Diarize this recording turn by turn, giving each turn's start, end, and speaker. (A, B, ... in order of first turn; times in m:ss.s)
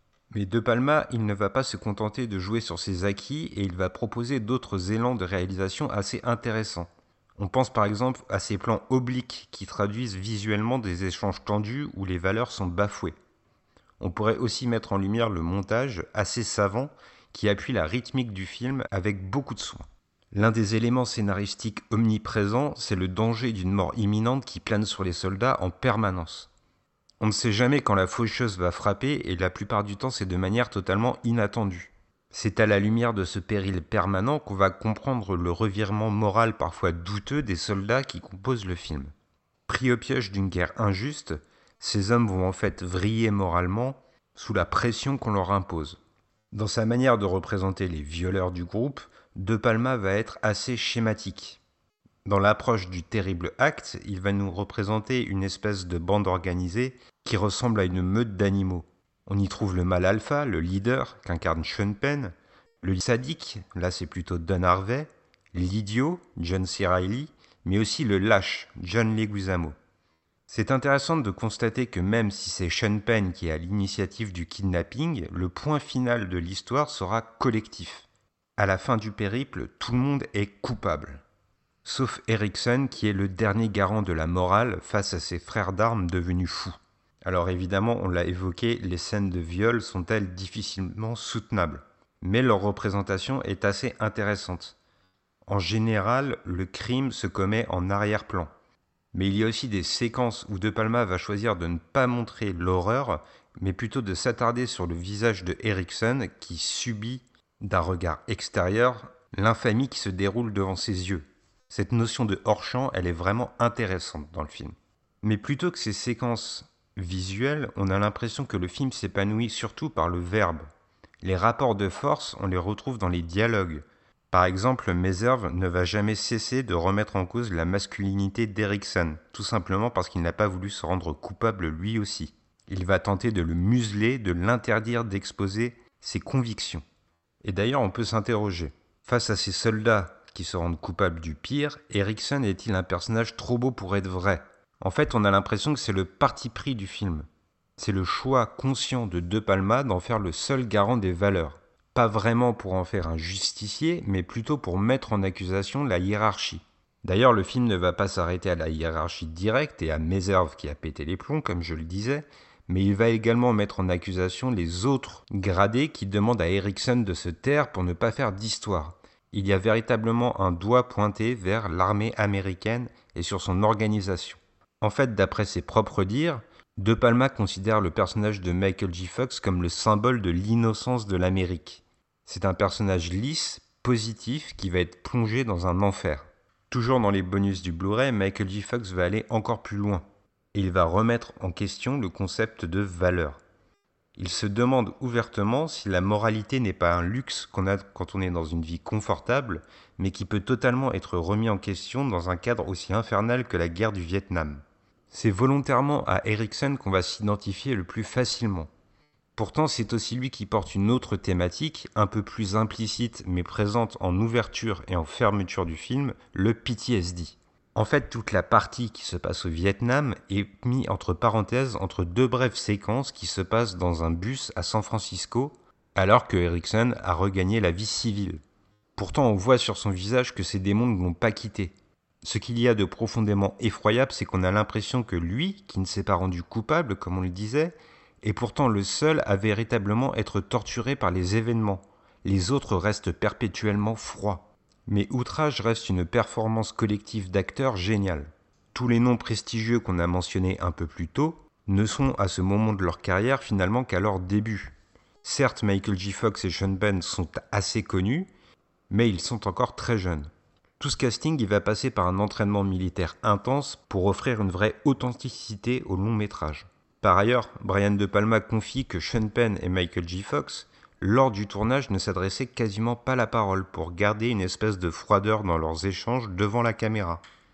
0:00.3-0:13.2 A
0:14.0-0:26.5 A
0:27.2-0:39.1 A
0:39.7-0:46.0 A
0:46.5-0:51.6 A
0:52.2-1:09.8 A
1:10.5-1:21.2 A
1:21.8-1:34.8 A
1:35.5-1:38.5 A
1:39.1-2:00.7 A
2:01.2-2:16.8 A
2:17.4-3:13.4 A
3:14.2-3:28.7 A
3:29.4-3:48.4 A
3:49.0-4:18.3 A
4:18.9-4:37.2 A